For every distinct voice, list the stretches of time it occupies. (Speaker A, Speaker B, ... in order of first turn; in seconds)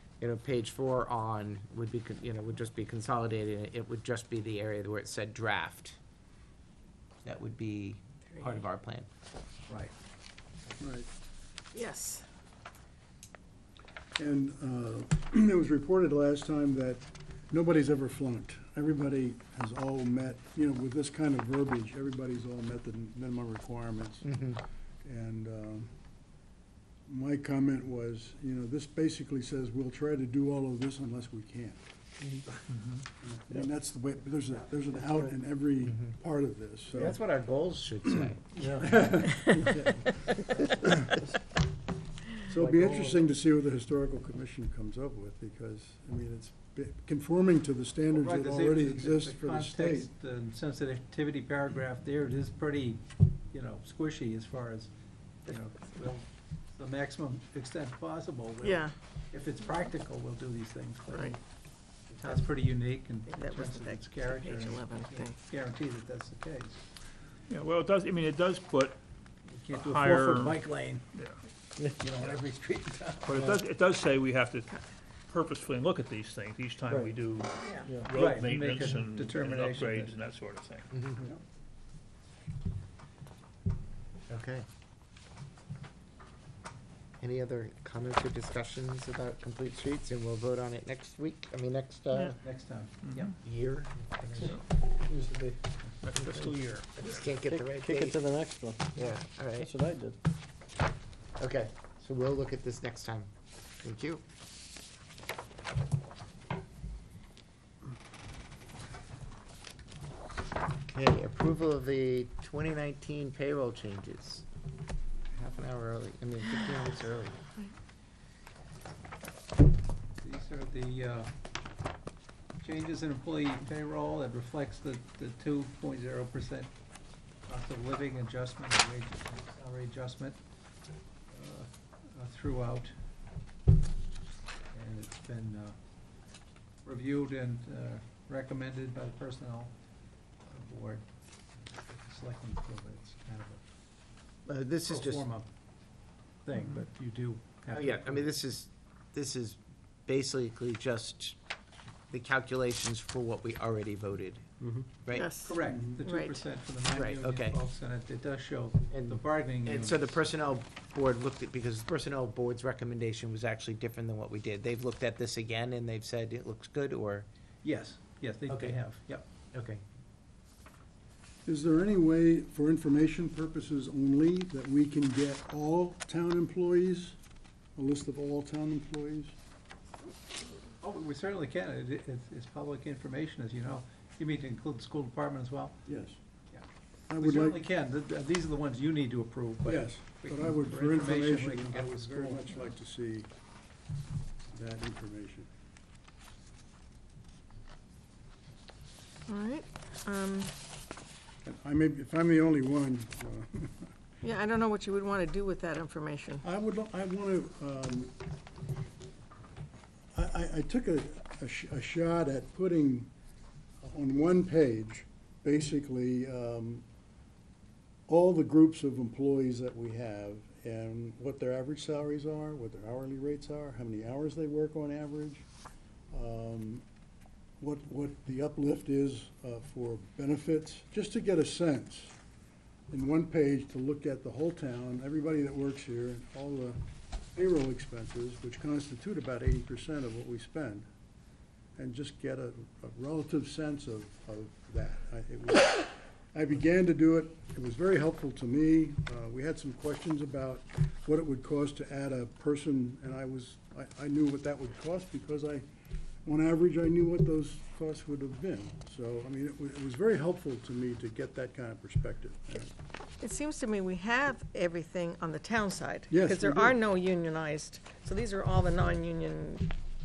Speaker A: 0.2-6.0, 7.2-9.1, 37.0-38.4, 84.3-84.7, 87.2-92.4, 93.4-94.2, 97.0-98.1, 98.9-99.7, 101.4-103.3, 103.8-104.2, 110.9-114.4, 115.3-117.4, 144.4-145.2, 147.7-149.5, 150.1-151.3, 152.1-154.5, 155.0-156.4, 157.0-157.6, 159.8-167.2, 169.5-169.8
Speaker B: 10.8-11.1, 14.2-25.9, 27.1-31.8, 33.2-37.2, 38.0-41.2, 42.5-50.1, 154.6-155.0, 155.6-156.0, 171.4-177.2, 177.8-179.3, 185.9-186.2, 187.1-187.6, 189.7-193.3, 194.5-195.5, 201.4-203.9, 206.4-208.1, 210.1-213.1, 213.8-216.8, 218.1-225.4, 226.1-226.8, 227.6-232.1, 232.9-236.8, 237.3-240.9, 241.8-255.7, 256.2-262.7, 266.1-266.8
Speaker C: 11.7-12.2, 58.6-58.9, 61.1-61.4, 63.3-65.3, 155.1-155.4, 199.3-200.5, 204.2-206.4, 263.2-269.7
Speaker D: 32.7-33.0, 48.1-54.9, 55.4-61.4, 62.1-66.8, 69.5-71.0, 72.0-73.3, 78.1-80.2, 92.4-93.3, 120.2-121.3, 122.6-126.7, 127.5-130.4, 131.3-132.9, 134.7-135.7, 136.8-139.7, 140.4-143.6, 144.8-145.5, 146.4-148.3, 155.2-160.3, 167.6-169.3, 180.8-185.8, 186.5-192.7
Speaker E: 35.0-35.3, 38.5-39.2, 42.6-43.2, 73.3-73.6, 76.9-77.1, 77.8-78.1, 95.0-95.6, 96.2-96.5, 97.3-100.2
Speaker F: 67.5-69.0, 69.7-70.6, 73.2-80.9, 93.1-93.3, 96.0-97.3